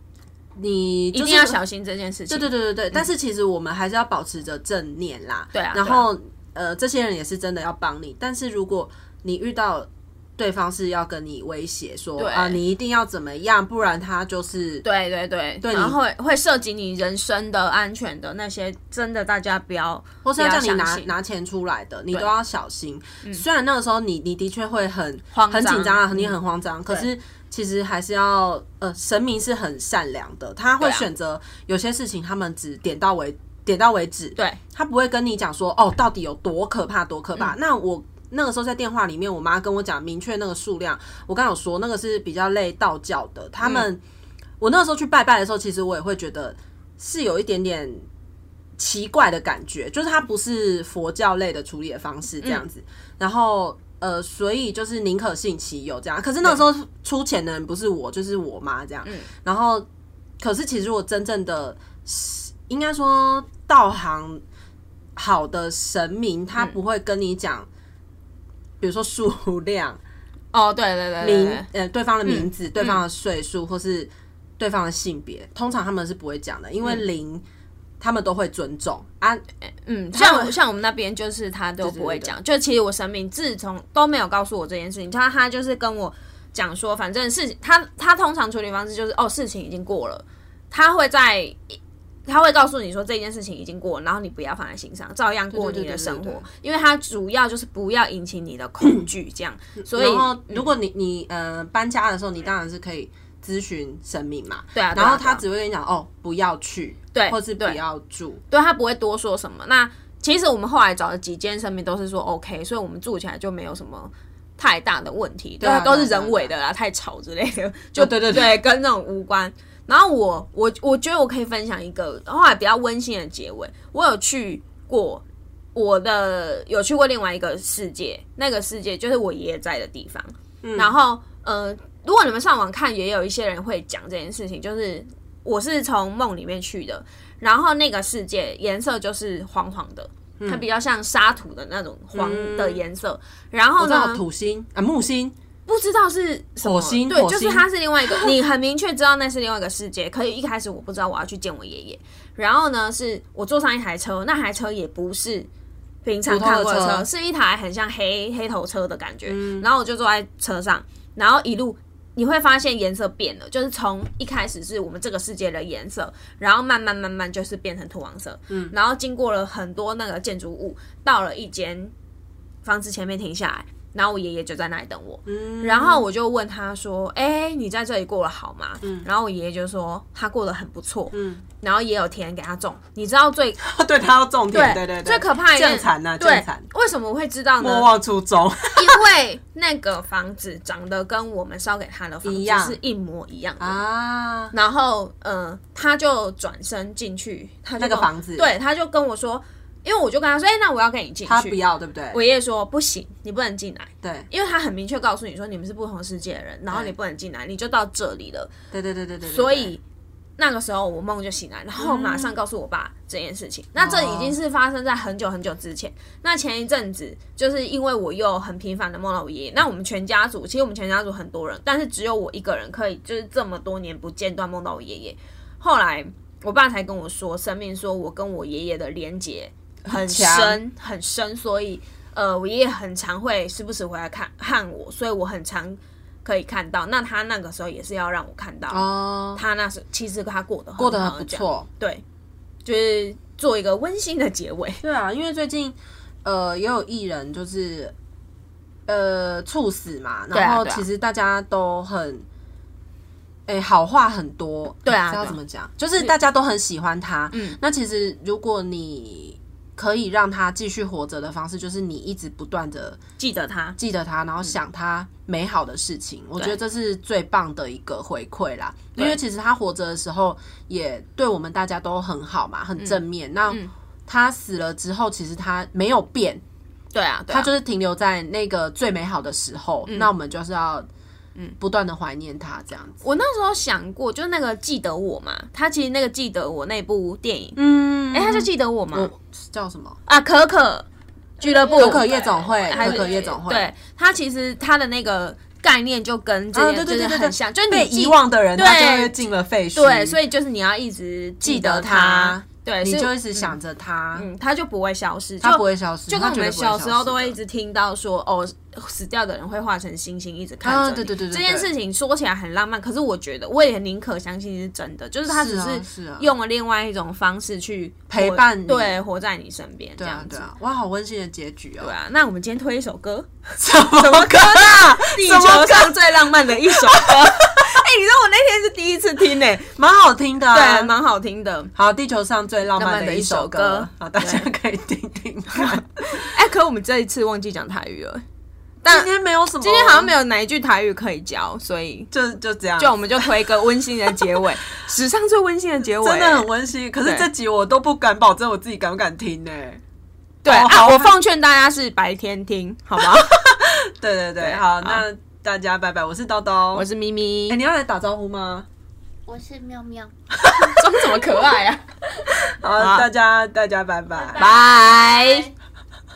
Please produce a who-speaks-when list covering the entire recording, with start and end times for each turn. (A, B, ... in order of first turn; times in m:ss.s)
0:00.6-0:01.6 A
0:01.1-0:03.1 B
0:02.3-0:14.9 A
0:05.5-0:06.1 B
0:12.2-0:12.6 B
0:14.8-0:21.1 B
0:15.6-0:16.0 A
0:20.2-0:44.0 A
0:25.3-0:26.4 B
0:30.8-0:31.1 B
0:43.6-0:43.9 B
0:44.6-0:48.0 A
0:48.8-0:59.9 A
1:00.4-1:04.4 A
1:05.2-1:07.7 A
1:08.8-1:10.0 A
1:10.5-1:11.7 B
1:11.2-1:17.4 A
1:12.2-1:13.0 B
1:18.0-1:19.4 A
1:19.9-1:40.7 B
1:20.1-1:20.5 A
1:21.8-1:22.3 A
1:35.5-1:36.4 A
1:39.9-1:48.4 A
1:44.8-1:45.4 B
1:47.1-1:47.8 B
1:48.5-2:24.2 B
1:55.6-1:56.5 A
1:58.0-1:58.6 A
2:10.6-2:10.9 A
2:22.1-2:22.8 A
2:23.8-2:25.4 A
2:25.7-2:35.5 B
2:26.6-2:28.3 A
2:36.0-2:51.9 B
2:36.3-2:37.1 A
2:39.3-2:39.7 A
2:52.6-3:03.6 B
2:55.3-2:56.1 A
3:01.1-3:01.4 A
3:03.6-3:06.7 A
3:04.5-3:07.9 B
3:07.6-3:09.0 A
3:08.8-3:13.8 B
3:12.2-3:12.8 A
3:13.6-3:14.5 A
3:14.5-3:21.6 B
3:17.8-3:18.5 A
3:21.3-3:22.2 A
3:22.1-3:28.5 B
3:24.0-3:24.3 A
3:28.7-3:29.8 A
3:29.3-3:29.8 B
3:30.4-4:02.0 B
3:31.8-3:32.3 A
3:33.8-3:34.4 A
3:49.9-3:50.6 A
3:58.7-3:59.4 A
4:00.8-4:01.7 A
4:02.6-4:04.8 B
4:04.8-4:07.9 A
4:08.9-4:12.3 A
4:10.3-4:10.8 B
4:13.5-4:23.0 A
4:14.8-4:15.4 B
4:17.3-4:17.6 B
4:23.2-4:23.8 B
4:23.8-4:36.4 A
4:32.8-4:33.7 B
4:36.9-4:37.5 B
4:37.3-4:40.9 A
4:41.6-4:43.0 A
4:43.0-4:47.6 B
4:47.6-4:50.0 A
4:48.1-4:49.1 B
4:50.1-4:50.9 B
4:51.4-4:59.2 B
4:51.4-4:53.7 A
4:52.0-4:53.2 C
4:56.5-5:00.2 A
4:59.8-5:03.6 B
5:01.4-5:04.3 A
5:04.2-5:20.5 B
5:05.4-5:07.4 A
5:10.6-5:11.7 A
5:15.3-5:16.3 A
5:18.1-5:19.0 A
5:20.0-5:21.9 A
5:21.8-5:29.7 B
5:23.6-5:27.7 A
5:29.8-5:30.9 A
5:30.5-5:31.7 B
5:31.7-5:36.3 A
5:32.8-5:34.5 B
5:35.5-5:38.2 B
5:38.8-5:42.1 B
5:38.9-5:40.1 A
5:42.1-5:43.3 A
5:42.8-5:46.5 B
5:45.8-5:49.8 A
5:50.4-5:53.5 B
5:50.5-5:51.1 A
5:53.0-5:56.8 A
5:54.4-5:55.0 B
5:56.7-5:57.6 B
5:57.5-5:58.7 A
5:59.3-6:00.1 C
6:00.3-6:01.3 A
6:00.6-6:01.8 B
6:02.4-6:04.5 A
6:02.8-6:03.1 B
6:04.2-6:05.5 C
6:04.4-6:05.5 B